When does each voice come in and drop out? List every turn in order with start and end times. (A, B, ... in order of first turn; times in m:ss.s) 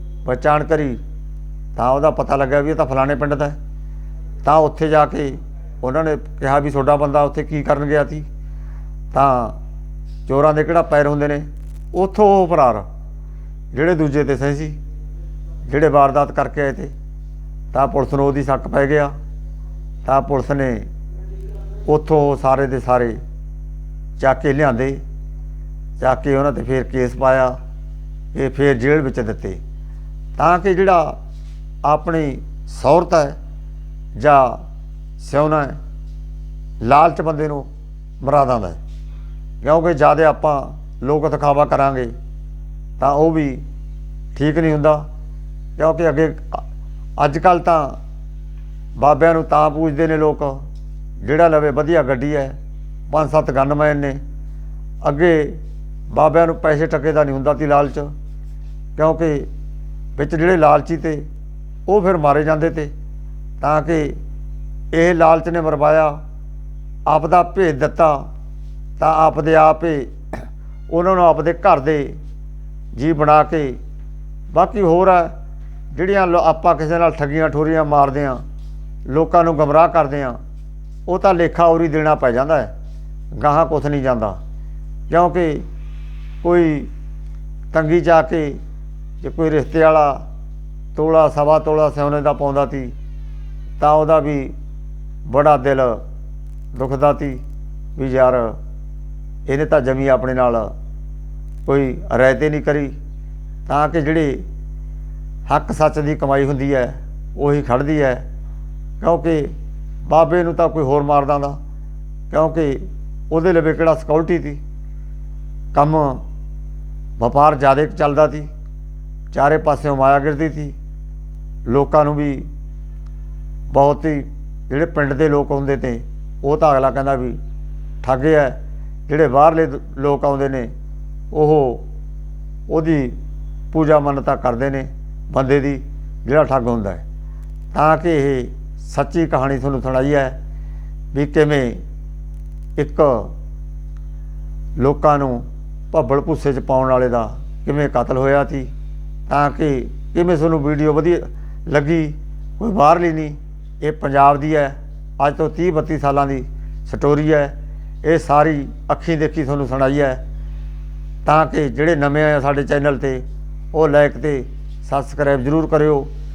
0:00.2-0:01.0 A
0:01.7-0:03.6 A
0:04.4-0:08.3 A
0:09.1-0:09.6 A
0:10.2-0:12.9 A
0:13.7-0:14.8 A
0:15.6-0:16.9 A
0:17.7-0:19.1 A
0:20.0-0:20.9 A
0:21.8-0:23.2 A
0:24.2-0:25.0 A
0:26.0-0:27.6 A
0:28.3-0:29.6 A
0:30.4-0:31.2 A
0:31.8-0:33.4 A
0:34.1-0:34.6 A
0:35.2-0:35.8 A
0:36.8-0:37.7 A
0:38.2-0:38.8 A
0:39.6-0:42.1 A
0:43.0-0:43.6 A
0:44.3-0:45.0 A
0:45.8-0:46.6 A
0:47.2-0:48.0 A
0:49.0-0:50.6 A
0:51.2-0:52.6 A
0:53.1-0:54.2 A
0:55.0-0:58.1 A
0:59.0-0:59.5 A
1:00.2-1:01.2 A
1:01.9-1:02.9 A
1:03.6-1:04.2 A
1:04.9-1:06.2 A
1:07.1-1:08.3 A
1:09.0-1:10.1 A
1:10.9-1:12.2 A
1:12.9-1:13.8 A
1:14.5-1:15.3 A
1:15.9-1:18.4 A
1:19.0-1:20.4 A
1:21.1-1:22.7 A
1:23.3-1:24.4 A
1:25.1-1:25.7 A
1:26.4-1:26.9 A
1:27.7-1:28.6 A
1:29.2-1:30.2 A
1:30.9-1:32.9 A
1:33.8-1:34.5 A
1:35.2-1:36.0 A
1:36.7-1:37.4 A
1:38.0-1:38.6 A
1:39.4-1:40.7 A
1:41.6-1:42.9 A
1:43.6-1:44.4 A
1:45.5-1:48.2 A
1:49.0-1:49.5 A
1:50.0-1:51.6 A
1:52.3-1:54.6 A
1:55.7-1:56.2 A
1:57.2-1:58.5 A
1:59.3-2:00.8 A
2:01.6-2:02.5 A
2:03.7-2:07.4 A
2:08.0-2:10.7 A
2:11.3-2:11.8 A
2:12.7-2:13.2 A
2:13.7-2:17.0 A
2:17.7-2:20.4 A
2:21.1-2:21.8 A
2:22.8-2:23.3 A
2:24.8-2:28.7 A
2:29.3-2:40.2 A
2:41.2-2:46.1 A